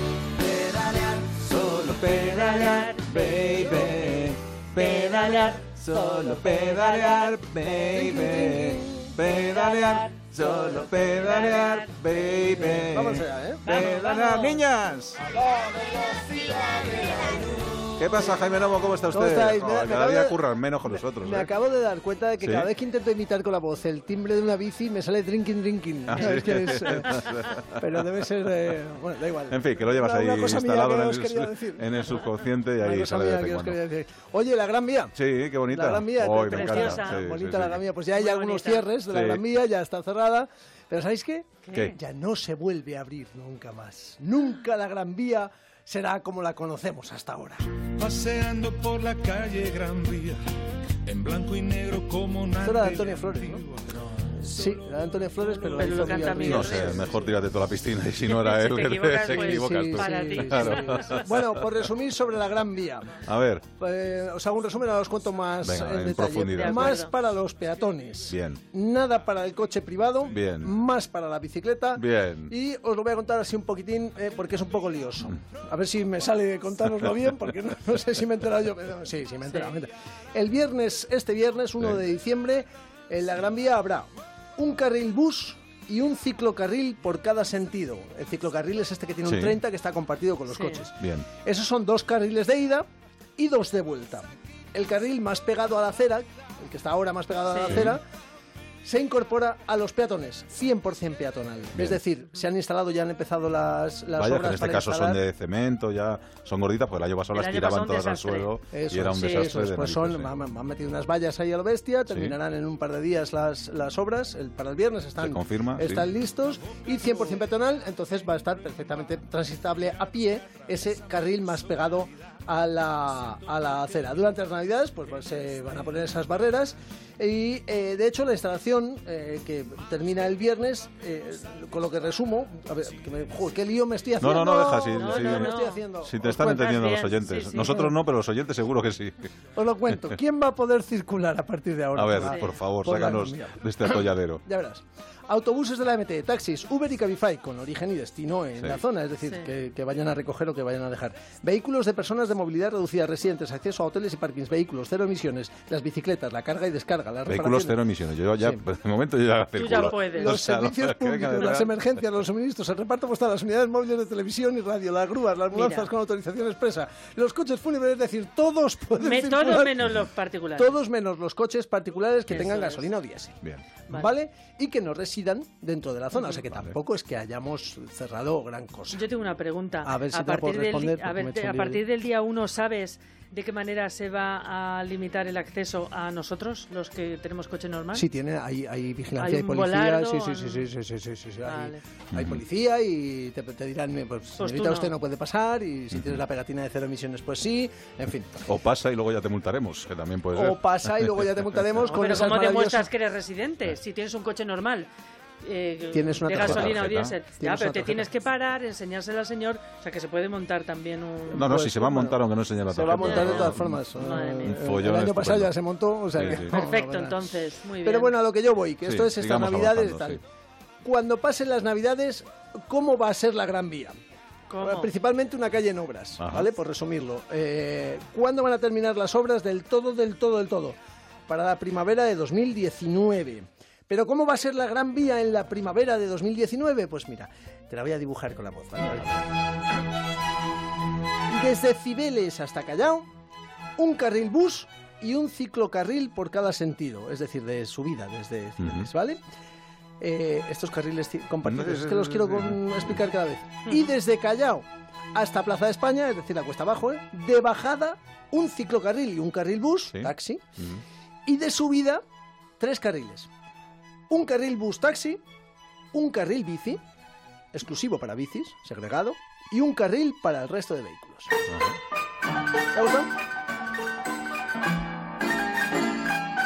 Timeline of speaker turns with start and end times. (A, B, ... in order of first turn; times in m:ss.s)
0:00.4-0:15.2 A
0:02.1-0:12.0 B
0:12.8-0:13.7 C
0:13.6-0:14.6 B
0:15.5-0:16.8 C
0:17.9-0:21.5 A
0:19.1-0:31.9 C
0:22.4-0:22.7 A
0:26.1-0:27.8 A
0:29.5-0:33.8 A
0:32.8-0:47.6 C
0:35.1-0:37.9 A
0:36.3-0:37.2 B
0:38.1-0:38.9 B
0:39.1-0:39.4 A
0:41.6-0:42.0 B
0:47.9-0:50.4 D
0:51.0-0:53.8 D
0:52.6-0:53.6 C
0:54.2-0:57.2 C
0:55.7-0:57.1 B
0:56.4-1:01.2 A
0:58.2-1:01.3 B
0:59.3-1:32.8 C
1:03.2-1:03.6 A
1:05.6-1:07.0 A
1:06.4-1:07.1 B
1:08.3-1:08.6 A
1:10.3-1:10.7 A
1:12.0-1:12.5 A
1:19.5-1:19.7 B
1:29.2-1:29.6 A
1:30.5-1:30.8 B
1:31.0-1:31.2 A
1:33.4-1:38.0 C
1:37.5-1:37.9 B
1:37.7-1:38.0 A
1:38.8-1:45.2 C
1:44.1-1:50.3 A
1:47.3-1:48.5 B
1:48.7-2:16.4 C
1:49.1-1:49.5 B
1:52.1-1:52.3 A
1:55.2-1:56.1 A
2:14.2-2:19.3 A
2:14.9-2:17.9 B
2:17.6-2:17.9 C
2:19.5-2:37.8 C
2:21.9-2:24.4 A
2:37.3-2:41.9 A
2:39.5-2:40.3 B
2:39.7-2:50.0 C
2:45.5-2:45.9 B
2:48.9-2:50.7 B
2:50.5-2:59.0 C
2:52.3-2:52.9 B
2:58.9-3:08.0 B
2:59.8-3:01.8 C
3:07.9-3:18.5 C
3:09.2-3:10.7 B
3:11.4-3:11.8 B
3:12.1-3:12.4 A
3:14.4-3:14.9 B
3:15.9-3:16.2 A
3:18.4-3:21.4 A
3:20.3-3:22.9 C
3:21.9-3:24.9 B
3:25.4-3:31.5 B
3:25.9-3:28.1 C
3:26.4-3:27.2 A
3:31.3-3:33.8 A
3:31.3-3:40.2 C
3:32.9-3:34.6 B
3:34.4-3:35.6 A
3:36.1-3:36.5 A
3:36.2-3:38.1 B
3:38.8-3:40.2 A
3:40.8-3:43.9 C
3:44.5-3:44.9 B
3:44.6-3:50.8 C
3:46.2-3:46.5 A
3:51.3-3:59.2 C
4:01.3-4:03.1 C
4:03.8-4:09.2 C
4:08.6-4:08.9 A
4:10.0-4:20.4 C
4:11.4-4:13.0 A
4:19.9-4:20.8 A
4:21.2-4:22.0 C
4:22.6-4:23.3 C
4:24.1-4:25.2 C
4:25.9-4:26.8 C
4:27.5-4:31.4 C
4:31.5-4:31.8 A
4:32.7-4:33.1 C